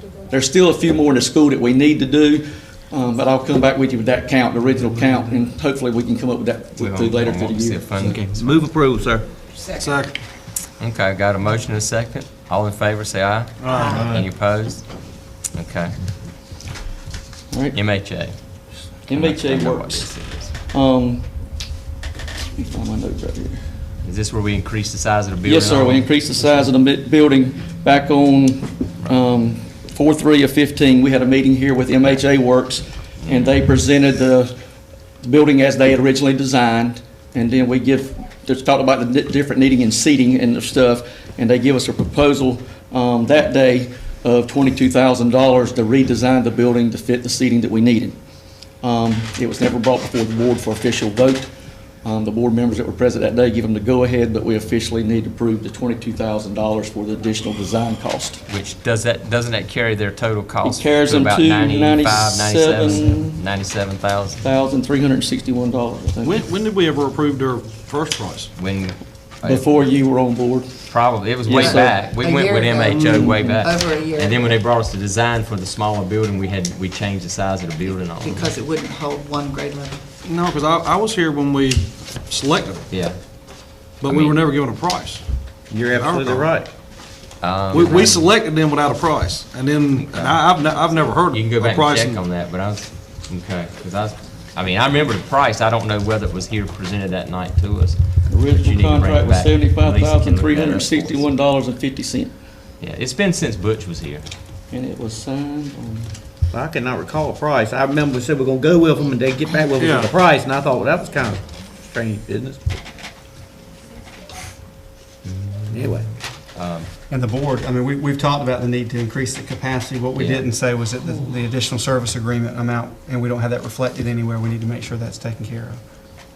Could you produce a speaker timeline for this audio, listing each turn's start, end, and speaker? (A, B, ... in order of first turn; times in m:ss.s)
0:00.3-0:08.1 A
0:06.8-0:08.6 B
0:08.0-0:09.3 C
0:09.7-0:10.2 D
0:10.8-0:14.9 B
0:13.6-0:14.3 D
0:13.7-0:14.1 E
0:15.5-0:15.9 B
0:17.5-0:17.8 A
0:17.7-0:20.5 B
0:19.1-0:20.1 A
0:20.7-0:21.3 A
0:22.5-0:23.6 A
0:24.0-0:26.1 B
0:25.4-0:34.6 A
0:35.2-0:48.2 A
0:48.8-0:51.5 A
0:52.0-0:58.4 A
0:58.5-1:04.4 B
1:00.6-1:03.4 A
1:04.4-1:06.4 A
1:06.2-1:08.5 D
1:08.5-1:09.9 B
1:09.4-1:10.7 A
1:10.9-1:18.5 B
1:11.4-1:12.0 A
1:11.6-1:14.6 E
1:18.2-1:20.0 E
1:20.2-1:22.8 D
1:22.9-1:24.4 B
1:24.0-1:25.2 D
1:25.7-1:26.7 C
1:25.9-1:26.5 D
1:27.4-1:28.3 B
1:27.7-1:32.2 D
1:30.0-1:30.5 B
1:31.2-1:41.2 B
1:38.3-1:42.3 A
1:42.8-1:44.3 B
1:44.7-1:46.1 A
1:46.5-1:52.8 C
1:49.8-1:50.1 D
1:55.3-1:56.9 B
1:55.7-1:56.1 C
1:57.1-2:05.8 F
2:00.1-2:00.5 B